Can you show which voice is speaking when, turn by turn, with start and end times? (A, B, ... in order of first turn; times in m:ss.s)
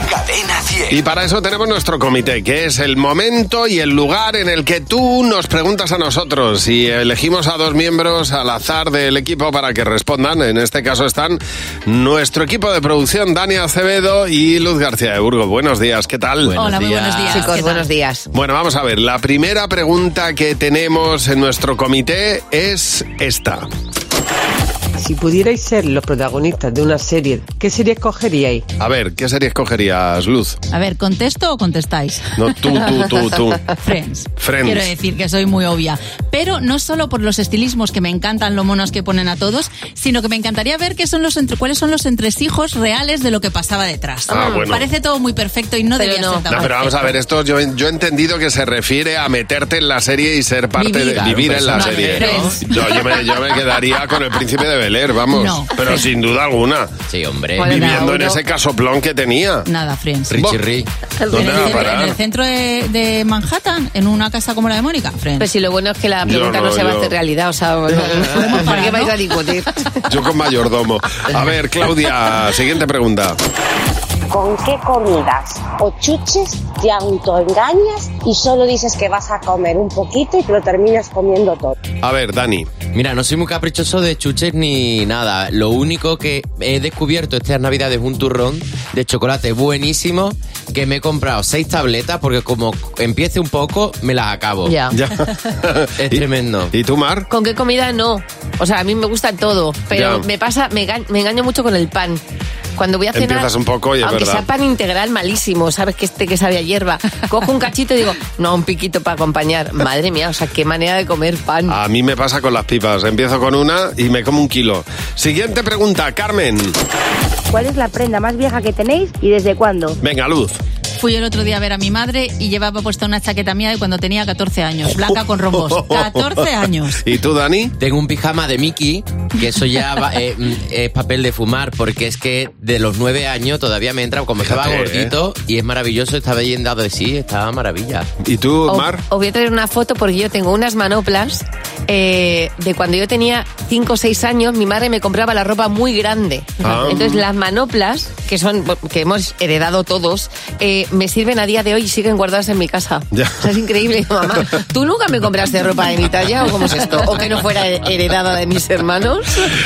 0:00.9-0:16.6 A
0:16.4-0:17.6 B
0:16.6-0:17.9 C
0:17.3-0:18.3 D
0:18.3-0:23.7 A
0:25.0-0:28.6 E
0:28.8-0:30.6 A
0:30.7-0:33.2 C
0:32.4-0:33.7 A
0:33.8-0:47.1 C
0:34.4-0:34.9 A
0:44.3-0:44.9 A
0:44.3-0:44.7 D
0:46.0-0:46.6 D
0:46.5-0:56.9 A
0:50.7-0:53.2 C
0:51.1-0:52.6 B
0:55.3-0:56.1 C
0:57.1-0:57.8 B
0:57.6-0:59.7 A
0:57.6-0:58.4 D
0:59.7-1:00.4 C
1:00.3-1:00.9 B
1:00.4-1:00.6 A
1:01.2-1:01.7 D
1:01.3-1:02.2 A
1:01.3-1:05.5 C
1:05.4-1:10.0 D
1:06.2-1:07.1 A
1:08.0-1:09.1 C
1:10.1-1:13.4 A
1:14.3-1:21.8 F
1:22.0-1:22.7 A
1:22.9-1:34.8 B
1:34.6-1:35.0 D
1:34.9-1:37.3 A
1:36.0-1:36.7 B
1:37.3-1:42.2 D
1:39.9-1:40.2 A
1:42.8-1:51.8 D
1:43.1-1:44.5 A
1:51.7-1:56.8 A
1:57.5-2:00.0 G
2:00.0-2:00.6 A
2:01.0-2:07.1 C
2:05.7-2:06.4 A
2:07.0-2:07.7 A
2:07.8-2:18.1 B
2:14.4-2:15.1 A
2:18.2-2:19.0 A
2:18.7-2:39.5 D
2:26.6-2:27.2 A